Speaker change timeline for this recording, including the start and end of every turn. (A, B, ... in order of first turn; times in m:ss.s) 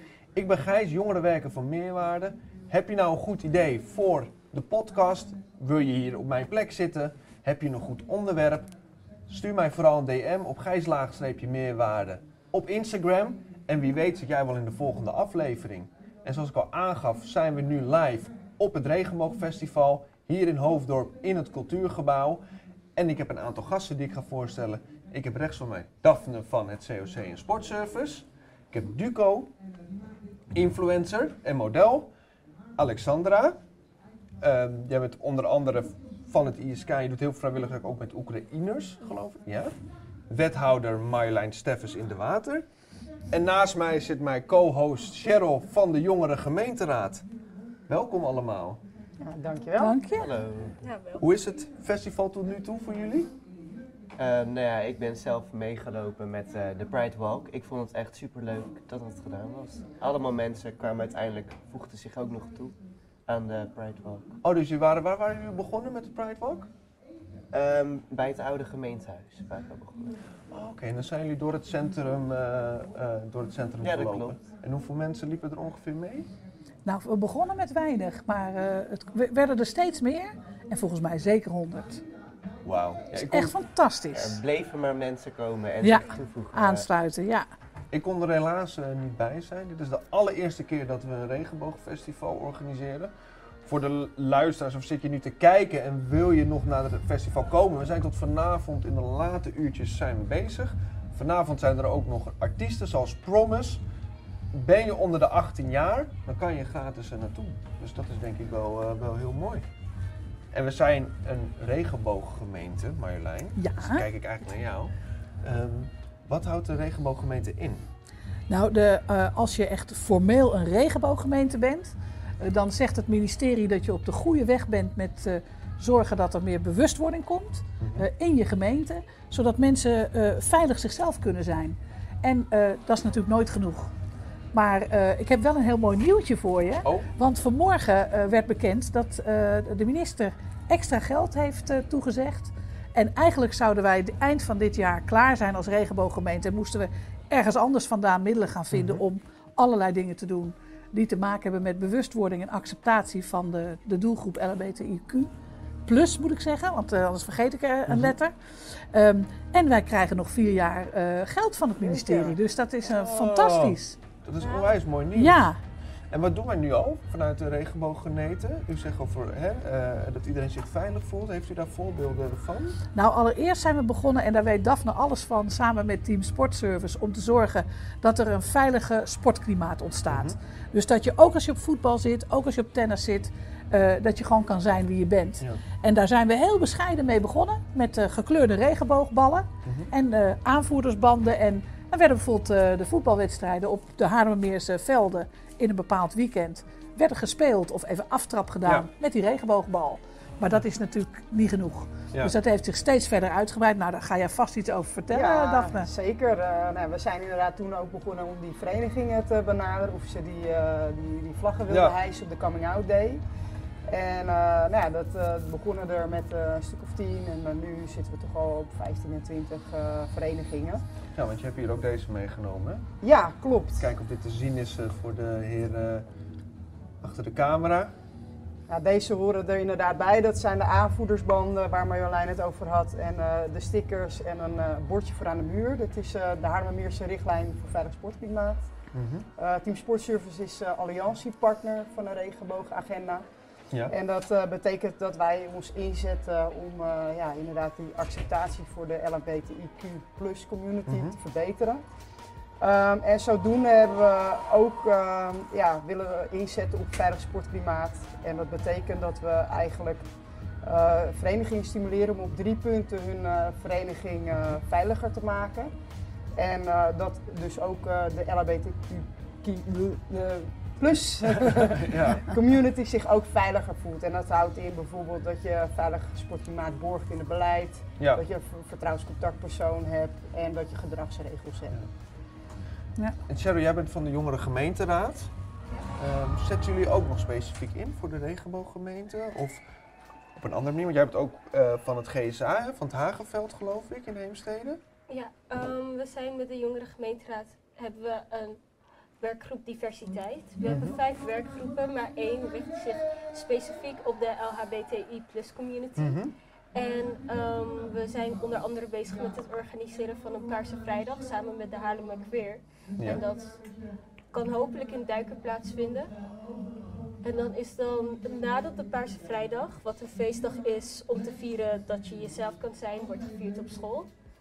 0:00.3-0:08.7 A
0:09.3-0:22.4 A
0:23.0-0:29.5 A
0:30.5-0:32.1 A
0:32.8-0:33.6 A
0:34.4-0:39.7 A
0:40.3-0:42.7 A
0:43.3-0:47.2 A
0:47.9-0:48.8 A
0:49.2-0:50.0 B
0:49.8-0:50.3 C
0:50.1-0:50.8 D
0:50.8-0:51.2 E
0:51.2-0:53.3 A
0:54.2-1:02.7 D
1:03.3-1:04.4 D
1:04.4-1:06.7 A
1:07.5-1:10.2 D
1:10.5-1:16.3 A
1:13.8-1:14.4 D
1:16.8-1:22.0 C
1:22.6-1:23.6 A
1:23.1-1:24.4 C
1:24.1-1:26.9 D
1:25.8-1:27.5 C
1:27.9-1:33.1 A
1:33.6-1:43.8 A
1:44.5-1:49.6 A
1:50.5-1:57.9 A
1:53.6-1:54.0 C
1:58.5-2:13.9 C
2:07.8-2:08.1 A
2:14.5-2:35.3 C
2:16.8-2:17.1 A
2:28.7-2:29.0 A
2:35.8-2:44.0 C
2:37.9-2:38.2 A
2:41.8-2:42.4 B
2:42.8-2:45.5 A
2:44.4-2:44.7 E
2:45.1-2:45.6 C
2:46.1-2:52.8 A
2:52.9-3:25.9 C
3:00.1-3:00.4 A
3:09.6-3:09.9 A
3:25.1-3:33.2 B
3:31.7-3:32.0 A
3:33.9-3:40.8 B
3:41.1-3:42.9 A
3:43.0-3:43.9 B
3:43.8-3:46.1 A
3:47.0-3:47.9 A
3:48.7-3:58.6 B
3:58.9-3:59.3 A
3:59.4-4:03.2 B
4:03.9-4:11.8 B
4:10.9-4:11.1 A
4:12.6-4:20.0 B
4:20.6-4:25.7 B
4:26.4-4:41.8 B
4:31.3-4:32.3 A
4:38.0-4:38.2 A
4:43.3-4:45.3 A
4:45.9-4:49.6 A
4:50.4-4:54.8 A
4:55.1-4:58.6 E
4:59.2-5:06.2 E
5:00.6-5:01.0 A
5:06.0-5:06.3 A
5:06.7-5:13.6 E
5:13.0-5:13.2 A
5:14.3-5:16.1 E
5:17.2-5:24.1 E